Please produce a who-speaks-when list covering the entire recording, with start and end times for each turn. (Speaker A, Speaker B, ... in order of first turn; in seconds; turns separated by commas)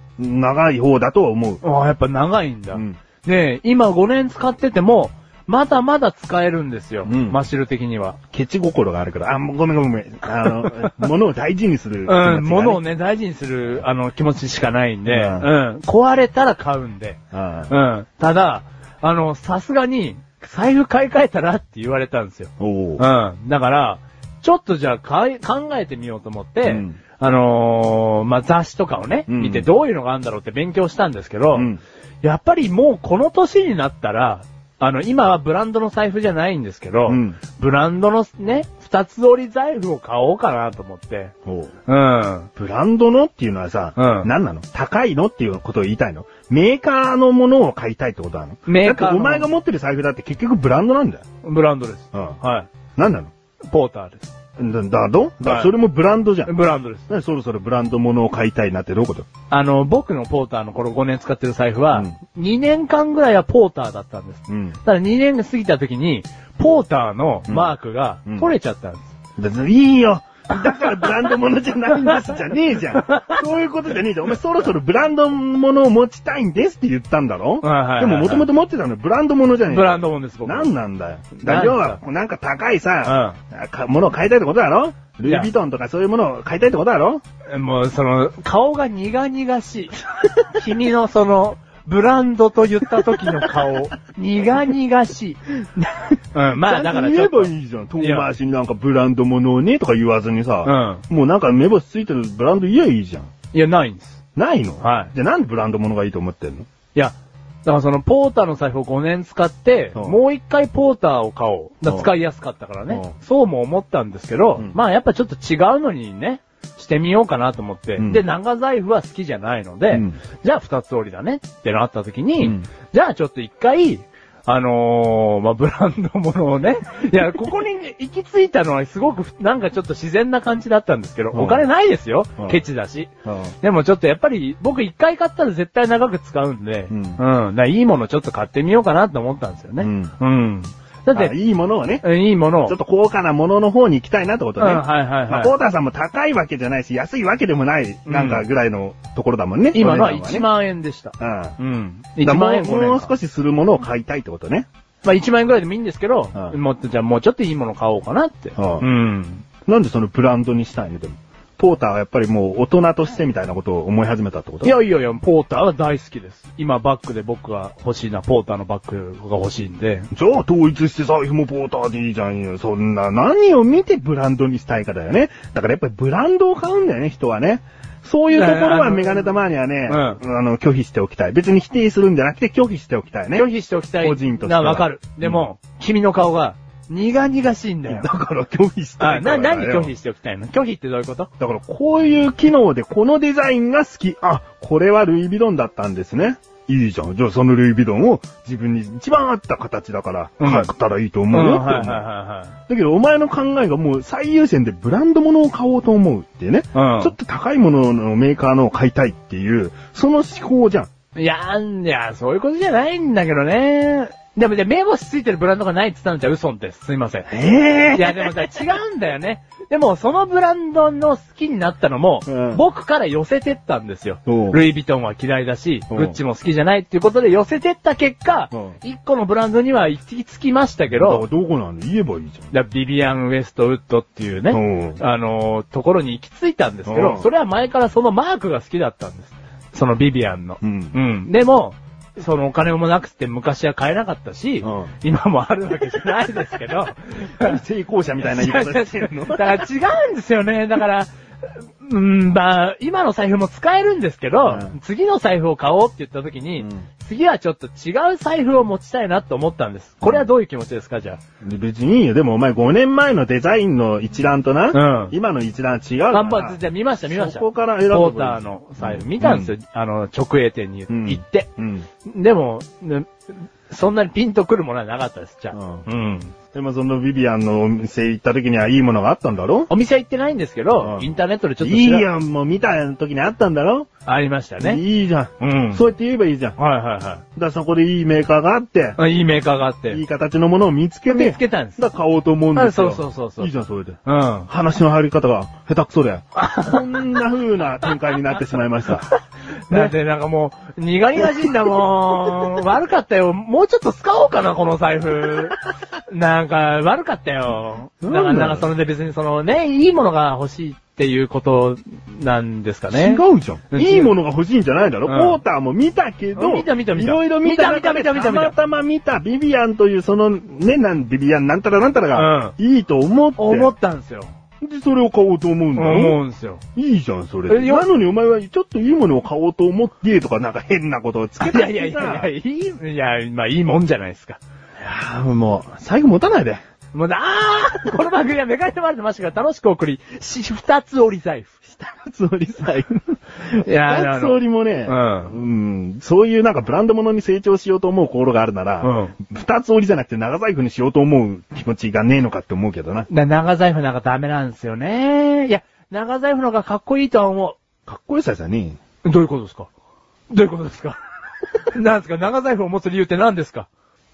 Speaker A: 0.2-1.6, Speaker B: 1.6-8.2, Speaker A: 2.7-3.0, Speaker A: 7.0-7.4, Speaker A: 8.3-12.8, Speaker B: 12.1-17.2, Speaker A: 15.1-15.5, Speaker A: 17.3-17.7, Speaker B: 17.7-31.7, Speaker A: 22.6-23.0, Speaker A: 26.6-27.0, Speaker A: 29.3-29.7, Speaker A: 31.5-31.8, Speaker B: 32.2-41.3, Speaker A: 37.1-37.4, Speaker A: 41.5-41.7, Speaker B: 41.9-42.5, Speaker A: 42.6-51.2, Speaker B: 44.0-44.3, Speaker B: 48.6-49.5, Speaker B: 51.4-52.7, Speaker A: 52.1-52.4, Speaker A: 53.0-53.3, Speaker B: 53.7-54.3, Speaker A: 54.6-56.5, Speaker B: 55.4-55.7, Speaker B: 56.5-57.1, Speaker A: 57.1-59.3, Speaker B: 59.5-69.1, Speaker A: 64.5-64.8, Speaker A: 68.2-68.5, Speaker A: 69.4-87.2, Speaker B: 73.0-73.3, Speaker B: 77.6-78.5, Speaker B: 79.7-80.7, Speaker B: 81.4-82.0, Speaker B: 83.0-83.4, Speaker B: 85.2-85.5, Speaker B: 87.5-95.4, Speaker B: 96.3-98.3, Speaker A: 96.6-103.3, Speaker B: 100.6-101.0, Speaker B: 103.5-104.2, Speaker A: 104.4-106.7, Speaker B: 104.8-105.1, Speaker B: 107.7-133.1, Speaker A: 109.9-110.2, Speaker A: 111.9-112.1, Speaker A: 112.9-113.1, Speaker A: 118.0-118.2, Speaker A: 119.9-120.2, Speaker A: 131.3-131.7, Speaker A: 133.2-133.5, Speaker B: 133.6-141.3, Speaker A: 136.9-137.2, Speaker A: 139.8-140.1, Speaker A: 141.1-142.1, Speaker B: 142.0-142.8, Speaker A: 142.6-150.5, Speaker B: 144.6-145.5, Speaker B: 148.1-148.4, Speaker B: 149.7-153.1, Speaker A: 151.2-151.6, Speaker A: 152.2-154.7, Speaker B: 155.0-159.4, Speaker A: 158.6-158.9, Speaker A: 159.7-164.8, Speaker B: 164.6-170.1, Speaker A: 170.1-183.5, Speaker B: 178.3-179.3, Speaker B: 179.9-180.2, Speaker B: 183.3-188.1, Speaker A: 184.0-185.4, Speaker A: 187.9-189.9, Speaker B: 189.0-191.3, Speaker A: 191.4-202.1, Speaker B: 200.4-200.7, Speaker B: 201.3-202.5, Speaker A: 202.7-210.9, Speaker B: 206.7-207.1, Speaker B: 211.1-217.3, Speaker A: 217.3-218.4, Speaker B: 217.9-231.2, Speaker A: 222.2-222.6, Speaker A: 224.2-224.6, Speaker A: 225.9-226.2, Speaker A: 231.0-232.5, Speaker B: 232.5-247.6, Speaker A: 234.5-235.0, Speaker A: 236.9-237.3, Speaker A: 240.6-241.0, Speaker A: 244.6-244.9, Speaker A: 247.4-249.7, Speaker B: 248.2-261.2, Speaker A: 254.4-254.7, Speaker A: 256.6-256.9, Speaker A: 260.0-260.3, Speaker A: 261.4-269.5, Speaker B: 264.7-265.1, Speaker B: 266.1-271.5, Speaker A: 270.9-271.9, Speaker B: 272.0-273.1, Speaker B: 273.7-276.3, Speaker A: 275.5-275.9, Speaker A: 276.5-279.7, Speaker B: 279.7-282.1, Speaker A: 280.8-283.9, Speaker B: 284.1-284.8, Speaker A: 284.6-286.6, Speaker B: 285.4-285.8, Speaker B: 286.6-287.2, Speaker A: 287.4-289.0, Speaker B: 289.0-290.0, Speaker A: 289.9-299.1, Speaker B: 291.1-291.8, Speaker B: 292.5-293.5, Speaker B: 294.0-294.5, Speaker B: 296.4-296.8, Speaker B: 299.7-314.1, Speaker A: 301.2-301.5, Speaker A: 308.0-308.7, Speaker A: 312.9-323.7, Speaker B: 315.0-315.4, Speaker B: 316.4-318.6, Speaker B: 322.1-322.5, Speaker B: 323.4-324.3, Speaker A: 324.6-326.2, Speaker B: 325.8-326.6, Speaker A: 326.8-332.3, Speaker B: 327.5-327.9, Speaker B: 331.4-334.4, Speaker A: 334.8-336.6, Speaker B: 336.9-341.5, Speaker A: 341.7-353.1, Speaker B: 343.5-345.4, Speaker B: 348.8-349.1, Speaker B: 353.1-357.6, Speaker A: 357.9-358.8, Speaker B: 359.0-359.7, Speaker B: 360.3-361.0, Speaker B: 361.6-363.7